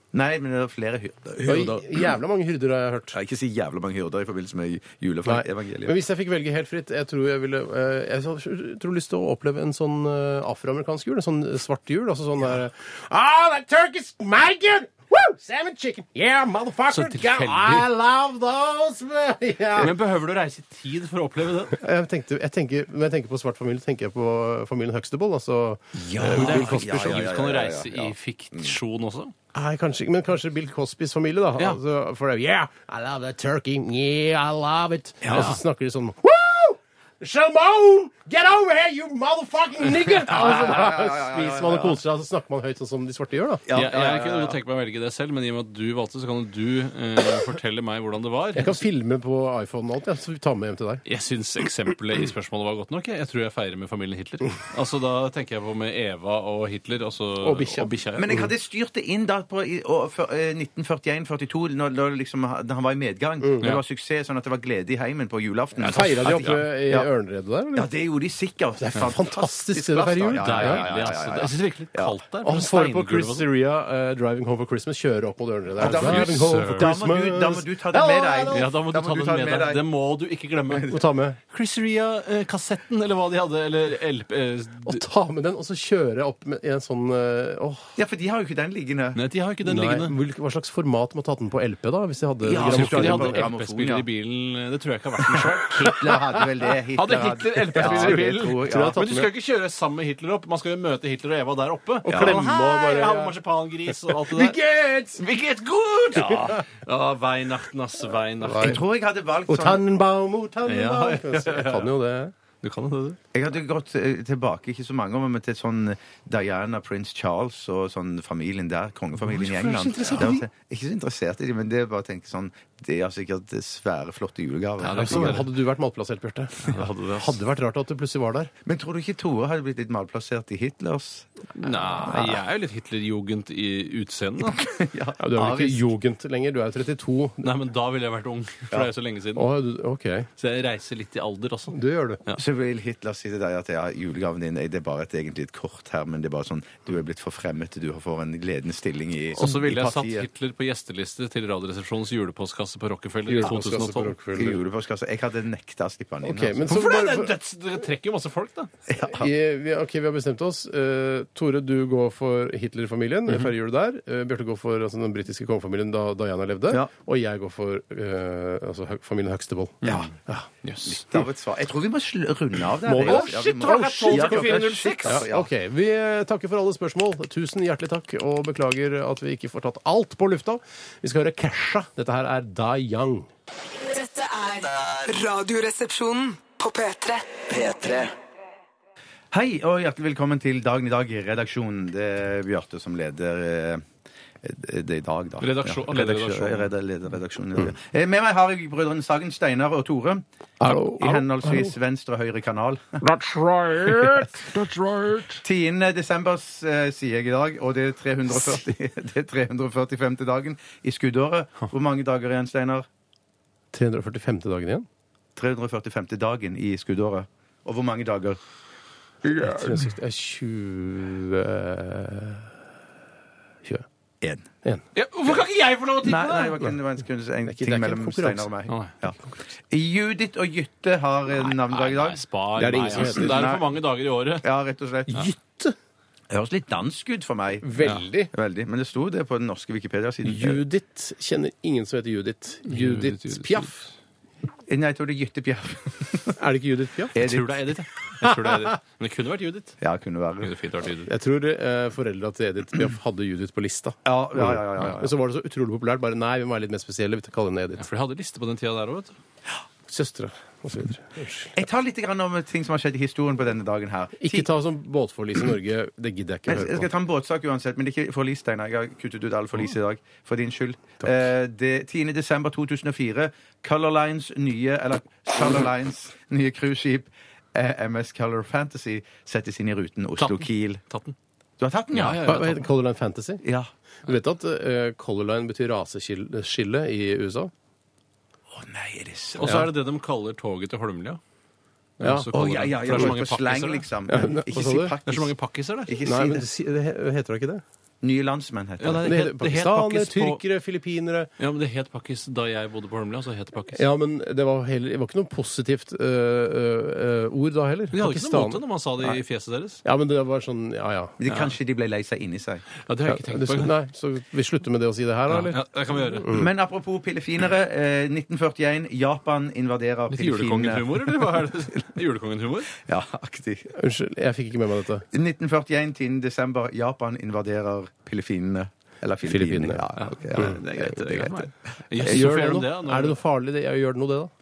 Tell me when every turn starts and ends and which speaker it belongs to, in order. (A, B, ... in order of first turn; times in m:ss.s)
0:00.1-0:02.1 A
0:01.4-0:03.2 B
0:03.1-0:06.0 A
0:05.2-0:19.9 B
0:16.9-0:17.8 C
0:19.8-0:21.8 C
0:21.8-0:27.2 B
0:26.0-0:28.8 A
0:26.3-0:29.3 C
0:29.5-0:43.7 B
0:35.2-0:35.5 A
0:35.3-0:35.6 C
0:40.3-0:42.0 A
0:43.7-0:44.6 A
0:43.7-0:48.8 C
0:48.6-0:51.0 B
0:51.1-0:58.4 C
0:57.4-0:58.5 B
0:58.2-1:07.1 A
1:03.4-1:03.7 B
1:05.8-1:06.7 C
1:05.9-1:07.9 B
1:07.7-1:12.2 A
1:08.8-1:10.8 B
1:10.4-1:13.5 C
1:12.4-1:18.7 B
1:15.8-1:19.8 A
1:15.8-1:17.0 C
1:18.5-1:21.0 C
1:20.9-1:21.4 B
1:21.5-1:25.0 C
1:24.9-1:28.0 B
1:28.0-1:29.2 A
1:29.2-1:30.1 C
1:29.6-1:33.5 B
1:32.4-1:34.1 A
1:32.5-1:36.2 C
1:35.8-1:39.0 A
1:37.0-1:44.6 C
1:37.7-1:39.3 B
1:42.1-1:42.5 A
1:42.1-1:43.4 B
1:44.1-1:45.2 B
1:45.2-1:48.8 C
1:46.3-1:46.6 B
1:48.4-1:48.8 B
1:48.6-1:49.8 A
1:49.5-1:52.3 B
1:50.7-1:51.9 C
1:52.6-1:53.2 C
1:53.3-2:05.4 A
1:59.3-2:00.4 B
1:59.8-2:00.3 C
2:04.8-2:05.5 C
2:04.9-2:08.5 B
2:06.6-2:07.4 C
2:08.6-2:11.3 A
2:11.6-2:14.6 C
2:12.0-2:12.4 B
2:14.7-2:15.9 A
2:15.2-2:17.5 B
2:17.4-2:19.5 C
2:19.4-2:20.3 B
2:20.4-2:22.4 C
2:21.7-2:22.2 B
2:22.4-2:30.3 A
2:29.3-2:34.2 C
2:33.3-2:34.6 B
2:34.4-2:36.7 A
2:36.2-2:37.3 B
2:36.7-2:38.7 C
2:38.9-2:39.3 A
2:39.0-2:50.5 B
2:49.8-2:50.1 C
2:50.6-2:51.0 C
2:50.8-2:55.5 A
2:52.8-3:03.3 B
2:53.0-2:55.3 C
3:03.8-3:08.2 D
3:09.3-3:13.8 A
3:14.4-3:20.2 A
3:15.4-3:16.7 C
3:20.6-3:21.7 B
3:21.0-3:23.0 A
3:23.0-3:25.4 E
3:23.9-3:24.3 B
3:25.4-3:32.9 A
3:33.7-3:34.9 B
3:35.4-3:38.4 A
3:39.2-3:39.8 E
3:39.4-3:42.5 B
3:44.2-3:44.5 A
3:45.0-3:46.6 C
3:46.0-3:49.2 A
3:47.4-3:48.5 B
3:48.7-3:48.9 C
3:49.7-3:53.7 A
3:51.5-3:54.5 C
3:52.6-3:53.5 B
3:54.4-3:55.2 A
3:55.1-3:55.8 B
3:56.3-4:00.6 A
3:57.6-3:58.3 B
4:00.2-4:03.9 B
4:02.7-4:03.7 C
4:04.7-4:06.4 A
4:06.4-4:07.2 B
4:07.1-4:07.6 A
4:07.1-4:09.8 C
4:08.2-4:08.8 B
4:09.8-4:10.5 A
4:10.4-4:11.1 C
4:11.1-4:17.8 B
4:14.1-4:15.1 A
4:17.8-4:19.2 C
4:19.9-4:21.6 B
4:21.6-4:24.5 A
4:24.2-4:26.9 B
4:26.5-4:40.8 A
4:40.2-4:41.2 C
4:41.6-4:42.2 A
4:41.9-4:42.7 C
4:42.3-4:43.4 B
4:43.4-4:43.7 A
4:44.0-4:47.5 B
4:48.5-4:49.6 A
4:49.4-4:51.2 C
4:49.4-4:49.7 B
4:52.0-4:53.8 C
4:52.0-4:52.3 B
4:52.3-4:55.3 A
4:54.1-4:55.0 B
4:55.1-4:56.0 C
4:55.9-4:56.5 A
4:56.0-4:57.6 B
4:58.0-4:59.1 A
4:58.8-5:00.4 C
4:59.0-5:01.3 B
5:01.4-5:03.8 C
5:03.7-5:08.6 B
5:07.9-5:09.8 C
5:09.8-5:11.2 B
5:11.2-5:12.6 A
5:11.3-5:11.6 C
5:12.8-5:13.7 C
5:13.1-5:15.6 B
5:15.3-5:16.3 C
5:16.3-5:21.5 A
5:20.1-5:22.8 C
5:22.8-5:23.7 A
5:23.7-5:25.1 B
5:25.1-5:32.3 A
5:29.2-5:29.8 B
5:30.0-5:33.2 C
5:32.0-5:34.3 B